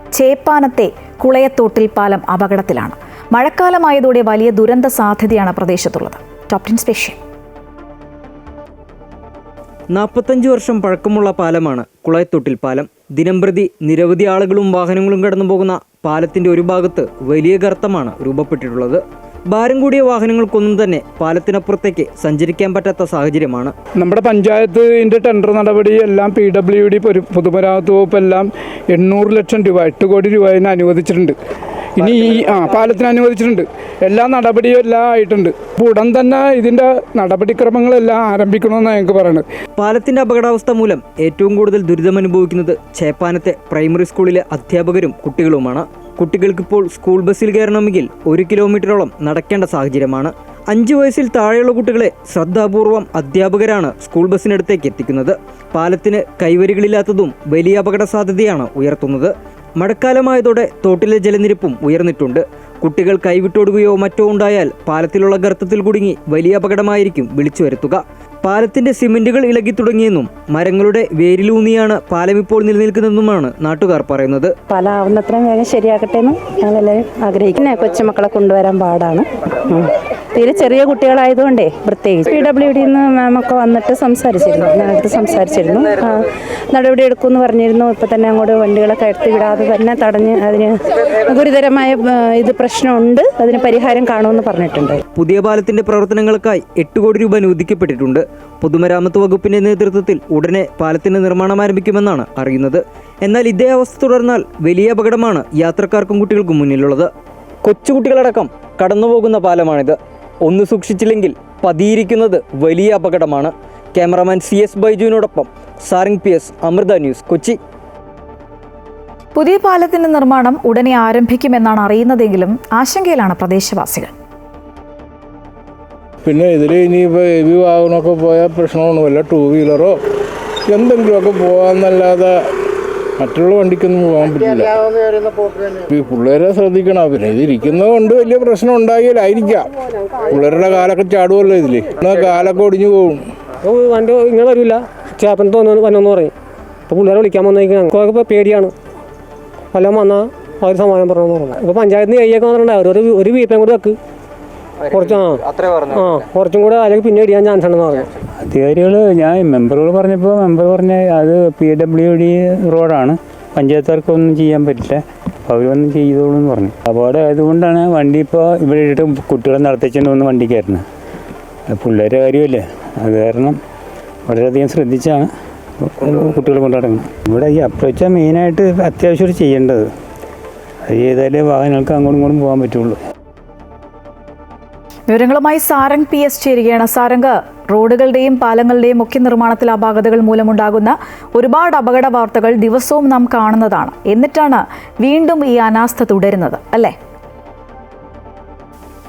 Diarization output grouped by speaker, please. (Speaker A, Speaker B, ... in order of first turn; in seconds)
Speaker A: 0.2-7.2, 119.4-124.1, 185.1-196.9
Speaker B: 9.9-23.8, 39.8-74.5, 95.2-107.1, 107.6-117.6, 154.8-156.3, 176.0-176.4
Speaker C: 24.0-31.4, 32.0-39.5
Speaker D: 74.7-95.0
Speaker E: 126.2-130.0, 130.7-132.4, 133.2-134.8, 135.9-139.7, 140.3-143.3
Speaker F: 143.6-146.3, 146.9-148.7, 149.7-154.0, 154.9-155.4, 155.9-158.1
Speaker G: 158.4-170.8, 171.7-173.6, 174.3-175.3, 175.8-179.9, 180.9-183.0